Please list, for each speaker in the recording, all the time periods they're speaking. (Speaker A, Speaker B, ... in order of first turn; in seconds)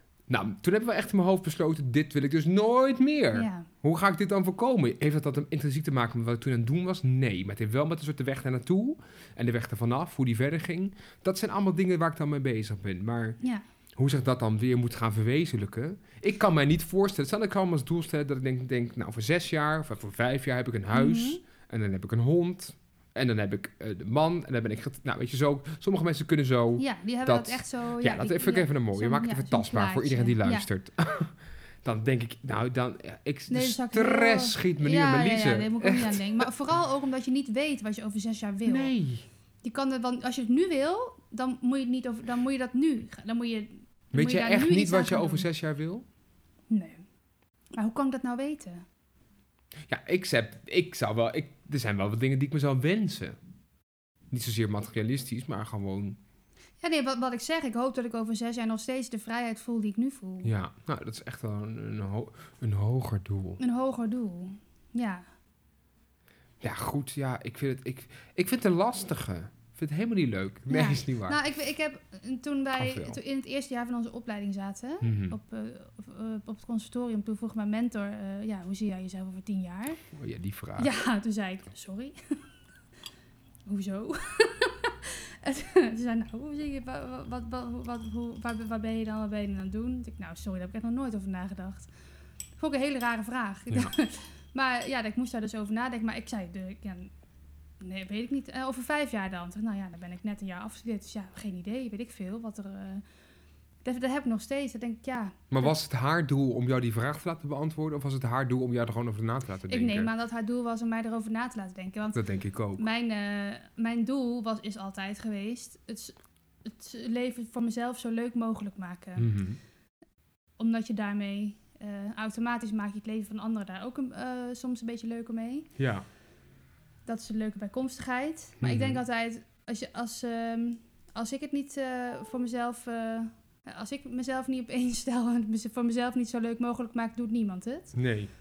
Speaker A: 0.3-13.4, 14.0-36.5, 38.6-39.2, 44.1-46.0, 49.9-53.4, 54.3-56.2, 60.4-63.6, 66.6-71.4, 72.8-73.2, 75.0-75.3, 80.1-80.9, 105.5-110.1, 112.1-112.8, 119.2-119.6, 125.8-126.0, 128.6-129.0, 137.9-138.3
Speaker B: 3.3-3.7, 20.9-21.4, 26.8-30.7, 33.5-38.9, 39.6-45.5, 46.7-47.0, 47.8-48.8, 56.8-60.5, 63.6-65.2, 70.7-80.0, 80.8-82.2, 83.7-91.9, 92.6-97.1, 97.8-103.0, 103.8-105.7, 109.7-112.2, 112.8-119.3, 120.6-125.7, 127.0-137.9